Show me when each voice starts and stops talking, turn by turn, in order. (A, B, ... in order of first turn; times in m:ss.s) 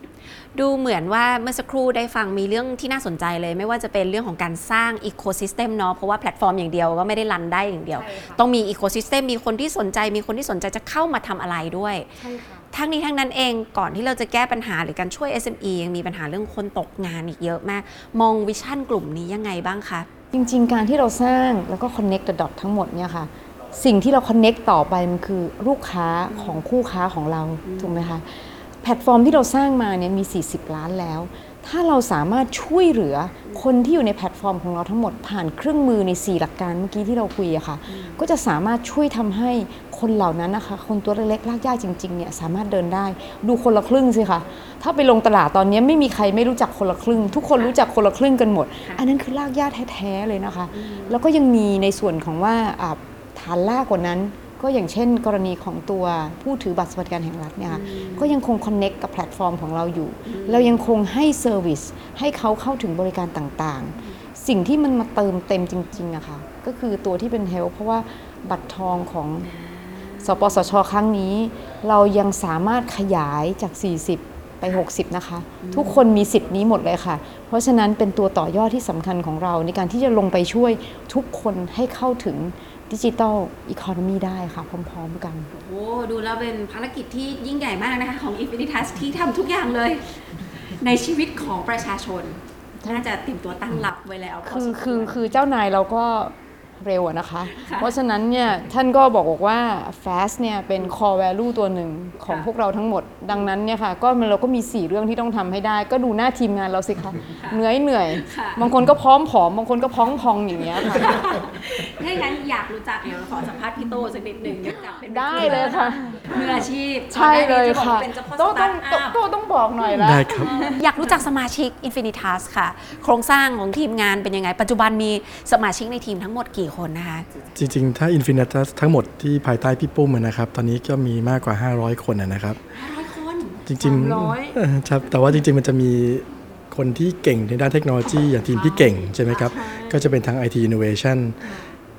0:00.6-0:20.1 A
0:07.9-0:08.4 B
0:12.2-0:12.6 B
0:20.3-1:09.5 B
0:26.3-0:26.6 A
0:27.6-0:28.1 A
0:37.9-0:38.2 A
0:50.7-0:51.2 A
0:57.7-0:58.4 A
1:00.2-1:00.8 A
1:09.4-1:10.6 A
1:10.2-1:25.5 B
1:15.6-1:16.0 A
1:25.5-1:35.2 A
1:34.4-1:51.1 B
1:37.4-1:38.0 A
1:42.2-1:42.5 A
1:47.3-1:47.6 A
1:48.2-1:48.7 A
1:50.6-1:59.2 A
1:55.1-2:00.7 B
1:59.8-2:07.3 A
2:00.0-2:00.5 C
2:07.5-2:12.6 C
2:12.7-2:14.5 A
2:13.6-2:21.4 C
2:18.3-2:20.1 A
2:21.4-2:21.8 A